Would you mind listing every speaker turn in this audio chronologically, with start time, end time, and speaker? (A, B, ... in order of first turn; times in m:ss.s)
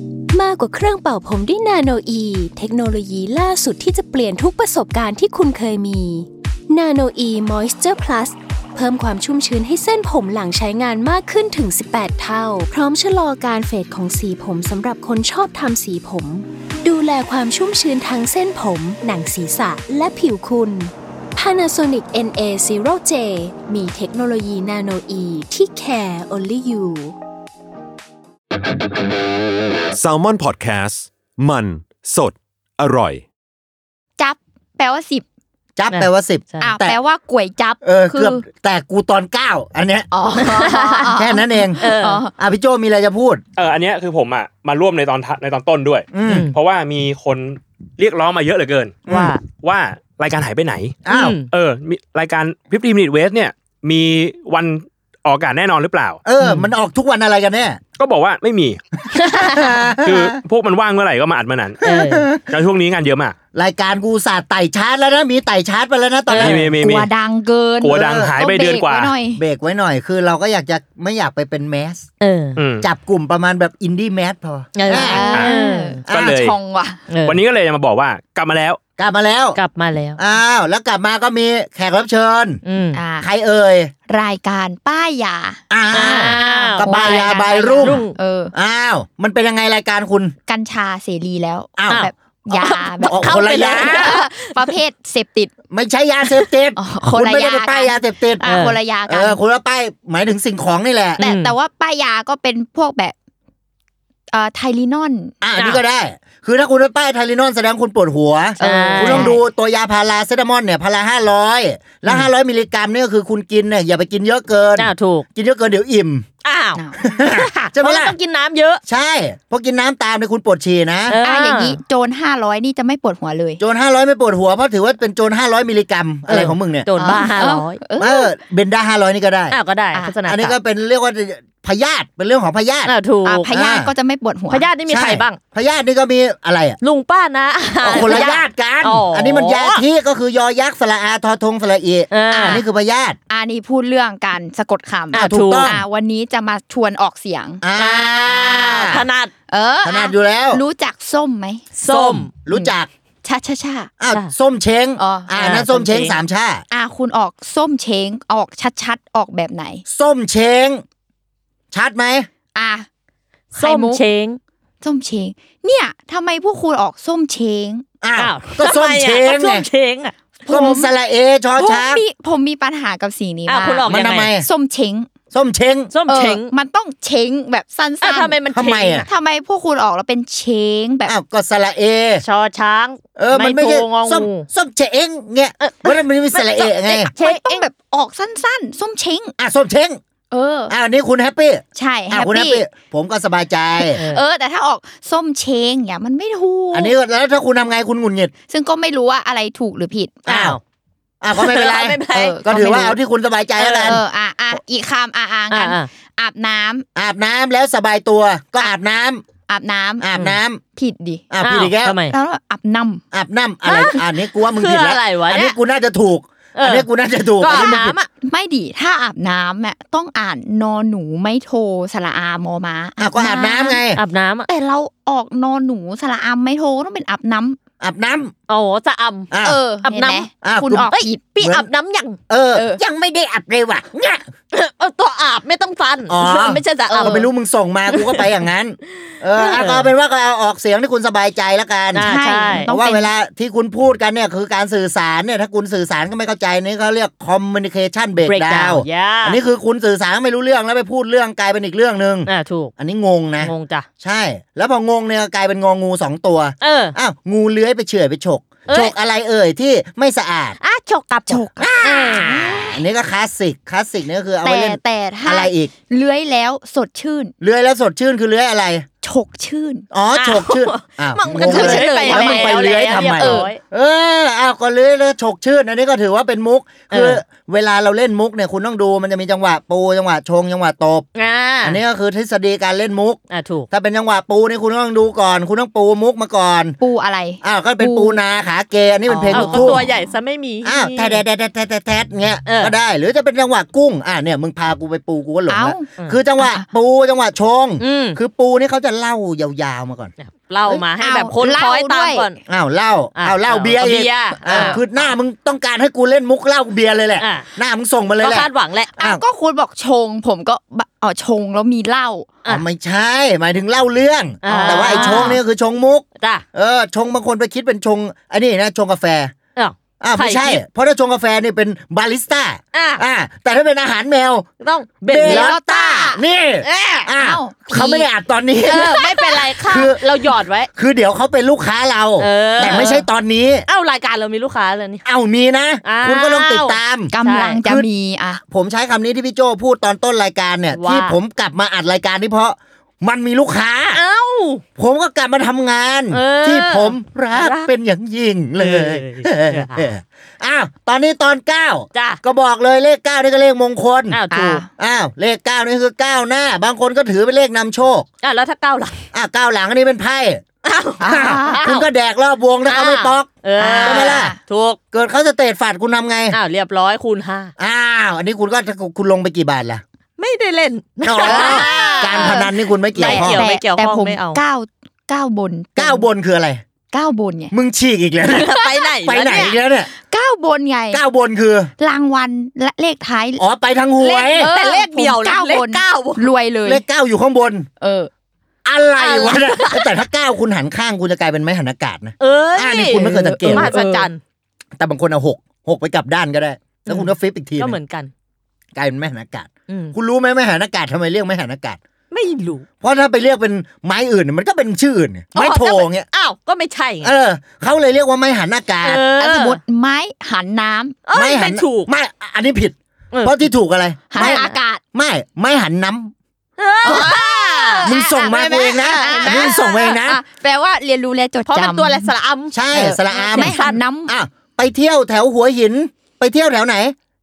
0:00.3-0:27.1 A
0:29.9-0:33.2 B
0:34.2-0:35.2 C
0:35.8-0:37.0 D
0:35.9-0:36.7 E
0:36.6-0:38.4 C
0:37.8-0:43.4 D
0:40.1-0:42.3 C
0:40.3-0:41.1 E
0:41.8-0:42.2 E
0:43.6-0:56.2 F
0:46.1-0:46.5 D
0:46.3-0:46.6 E
0:49.1-0:49.3 D
0:49.1-0:49.4 E
0:51.0-0:51.4 D
0:51.1-0:51.5 E
0:56.2-0:57.8 D
0:56.4-0:56.7 E
0:58.0-0:58.8 F
0:59.2-1:00.4 D
0:59.2-0:59.9 E
1:00.0-1:01.8 F
1:01.8-1:02.3 E
1:01.9-1:02.5 D
1:02.4-1:03.4 F
1:03.5-1:07.1 D
1:06.3-1:06.7 E
1:06.4-1:07.1 F
1:06.8-1:09.4 C
1:07.8-1:09.2 F
1:07.9-1:08.4 D
1:09.3-1:12.1 D
1:12.2-1:12.6 E
1:12.6-1:12.9 F
1:12.8-1:15.4 D
1:14.8-1:16.0 E
1:14.9-1:17.0 C
1:15.3-1:15.6 F
1:16.1-1:16.4 D
1:16.1-1:16.6 F
1:17.1-1:17.4 E
1:17.2-1:18.8 F
1:19.0-1:19.6 D
1:19.6-1:20.2 E
1:20.2-1:22.6 D
1:22.6-1:23.0 E
1:22.9-1:23.3 C
1:23.2-1:23.9 D
1:24.1-1:28.5 C
1:25.7-1:30.4 D
1:25.9-1:28.2 E
1:30.5-1:35.5 C
1:31.8-1:32.1 D
1:31.9-1:34.8 E
1:33.0-1:34.2 D
1:35.7-1:38.5 D
1:36.8-1:39.4 C
1:38.4-1:38.8 E
1:39.1-1:41.2 D
1:41.2-1:41.6 E
1:41.2-1:43.2 C
1:44.3-1:45.4 C
1:45.4-1:56.3 D
1:48.6-1:49.4 C
1:48.6-1:49.4 E
1:54.8-1:55.3 E
1:56.4-1:58.8 E
1:56.8-1:57.1 C
1:57.0-1:58.2 D
1:58.8-2:01.2 D
2:01.1-2:01.8 E
2:01.2-2:03.6 C
2:03.6-2:06.9 D
2:06.3-2:07.8 E
2:07.0-2:08.3 C
2:08.0-2:09.6 D
2:09.5-2:10.6 E
2:10.3-2:12.9 D
2:12.9-2:13.5 E
2:13.2-2:14.7 C
2:13.5-2:13.9 D
2:14.5-2:15.4 E
2:14.9-2:16.8 D
2:16.8-2:19.8 E
2:17.8-2:23.2 D
2:22.1-2:22.6 E
2:22.3-2:22.6 C
2:23.3-2:27.6 C
2:25.1-2:25.8 E
2:25.2-2:25.8 D
2:27.6-2:29.1 D
2:27.8-2:29.3 E
2:29.5-2:31.6 C
2:29.8-2:30.6 D
2:31.8-2:32.6 E
2:31.9-2:32.9 D
2:33.2-2:33.9 C
2:34.0-2:36.6 D
2:35.0-2:35.4 C
2:35.4-2:36.2 E
2:36.7-2:39.8 C
2:39.9-2:40.8 D
2:41.7-2:42.3 D
2:42.5-2:42.9 C
2:43.6-2:44.0 C
2:43.6-2:44.4 E
2:44.8-2:47.8 C
2:48.0-2:49.7 D
2:48.2-2:50.1 E
2:50.4-2:50.9 C
2:50.5-2:52.0 D
2:51.6-2:55.1 C
2:53.5-2:54.3 E
2:53.9-2:54.5 D
2:55.3-2:55.9 D
2:55.9-2:56.5 E
2:56.1-2:58.4 C
2:58.0-2:59.1 E
2:58.5-2:59.1 D
2:58.9-3:01.1 C
3:01.1-3:02.2 D
3:02.2-3:04.5 E
3:03.2-3:07.1 D
3:05.6-3:07.7 E
3:07.2-3:09.4 C
3:09.4-3:10.0 D
3:10.3-3:10.7 C
3:10.7-3:14.0 D
3:11.7-3:12.6 C
3:13.9-3:16.9 C
3:14.0-3:14.2 E
3:16.7-3:18.3 D
3:18.5-3:20.3 C
3:20.3-3:20.6 D
3:20.3-3:20.6 E
3:21.2-3:24.0 D
3:21.4-3:22.4 E
3:22.1-3:23.0 C
3:23.6-3:24.0 E
3:23.8-3:26.9 C
3:25.5-3:25.9 E
3:27.0-3:29.2 D
3:29.5-3:30.1 C
3:30.0-3:30.6 D
3:30.7-3:31.2 C
3:31.3-3:32.0 D
3:31.4-3:32.2 E
3:32.1-3:33.0 C
3:33.1-3:38.0 D
3:33.7-3:35.6 E
3:36.6-3:38.1 E
3:37.5-3:43.8 C
3:43.0-3:44.0 D
3:43.9-3:44.5 E
3:44.5-3:47.6 C
3:47.8-3:48.3 D
3:48.5-3:50.3 E
3:49.3-3:49.6 D
3:49.4-3:51.3 C
3:50.4-3:51.7 D
3:50.9-3:52.2 E
3:52.3-3:54.3 D
3:52.5-3:52.8 C
3:54.5-3:57.3 E
3:56.1-4:20.6 D
3:57.9-3:58.2 E
3:59.4-3:59.9 E
4:01.9-4:02.7 E
4:02.0-4:03.1 C
4:08.2-4:09.4 E
4:12.3-4:12.7 E
4:13.4-4:13.9 E
4:16.6-4:17.0 E
4:18.7-4:18.9 E
4:20.6-4:22.6 E
4:21.3-4:22.8 C
4:21.6-4:25.7 D
4:24.4-4:27.3 C
4:27.4-4:28.9 D
4:29.0-4:29.9 C
4:29.9-4:41.1 D
4:30.1-4:33.6 E
4:31.3-4:33.5 C
4:36.9-4:37.2 E
4:41.2-4:41.8 E
4:41.6-4:46.8 D
4:43.3-4:43.7 E
4:46.8-4:48.2 C
4:47.4-4:49.9 D
4:49.1-4:50.0 C
4:49.3-4:51.2 E
4:50.6-5:00.1 D
4:52.5-4:52.8 E
4:55.5-4:56.7 C
4:57.8-4:58.2 E
5:00.2-5:02.4 E
5:01.0-5:02.3 C
5:02.5-5:09.2 D
5:03.2-5:04.8 E
5:04.5-5:04.8 C
5:07.2-5:07.5 E
5:08.2-5:08.9 E
5:09.0-5:12.3 C
5:12.5-5:19.3 D
5:14.4-5:15.4 E
5:14.5-5:15.4 C
5:19.6-5:20.6 E
5:20.0-5:24.5 D
5:22.7-5:23.0 E
5:24.6-5:25.5 E
5:25.0-5:30.1 D
5:25.2-5:26.2 C
5:26.6-5:27.1 E
5:27.2-5:28.0 C
5:27.8-5:28.1 E
5:28.7-5:30.7 E
5:30.7-5:33.7 D
5:32.2-5:33.1 E
5:33.7-5:35.0 E
5:35.0-5:37.9 D
5:35.8-5:37.6 E
5:37.1-5:38.4 C
5:38.5-5:44.0 D
5:40.7-5:41.2 E
5:43.9-5:44.6 E
5:44.8-5:54.2 D
5:46.1-5:47.7 E
5:48.6-5:49.9 E
5:51.9-5:52.2 E
5:54.1-5:54.6 E
5:54.3-5:54.7 C
5:54.8-5:58.1 D
5:58.2-5:59.0 E
5:59.1-6:00.4 D
6:00.6-6:01.9 E
6:01.0-6:01.7 C
6:01.0-6:04.4 D
6:02.7-6:04.8 E
6:03.6-6:04.4 C
6:04.9-6:06.4 D
6:06.3-6:07.5 E
6:07.6-6:09.8 D
6:10.2-6:14.4 E
6:11.0-6:13.4 D
6:11.2-6:16.1 C
6:15.8-6:16.6 D
6:16.9-6:17.5 C
6:17.5-6:18.5 D
6:18.3-6:19.6 E
6:19.0-6:19.9 D
6:20.0-6:21.0 C
6:20.9-6:21.7 D
6:21.8-6:23.4 C
6:23.4-6:24.5 D
6:24.0-6:26.3 E
6:24.4-6:26.8 C
6:26.6-6:27.7 D
6:27.8-6:28.1 C
6:28.6-6:33.8 D
6:29.0-6:29.9 E
6:32.2-6:34.2 E
6:32.9-6:34.1 C
6:34.8-6:37.8 D
6:36.9-6:38.1 E
6:38.8-6:41.8 D
6:39.7-6:40.0 E
6:42.1-6:42.7 E
6:42.8-6:46.1 D
6:45.3-6:47.1 E
6:47.0-6:49.1 D
6:48.8-6:49.6 E
6:49.2-6:51.0 C
6:51.1-6:51.9 E
6:51.1-6:56.1 D
6:53.1-6:53.4 E
6:54.1-6:54.8 C
6:54.2-6:54.6 E
6:56.6-6:59.9 E
6:56.8-7:02.1 C
6:57.8-7:00.2 D
7:01.5-7:03.8 E
7:02.5-7:07.0 D
7:03.3-7:04.1 C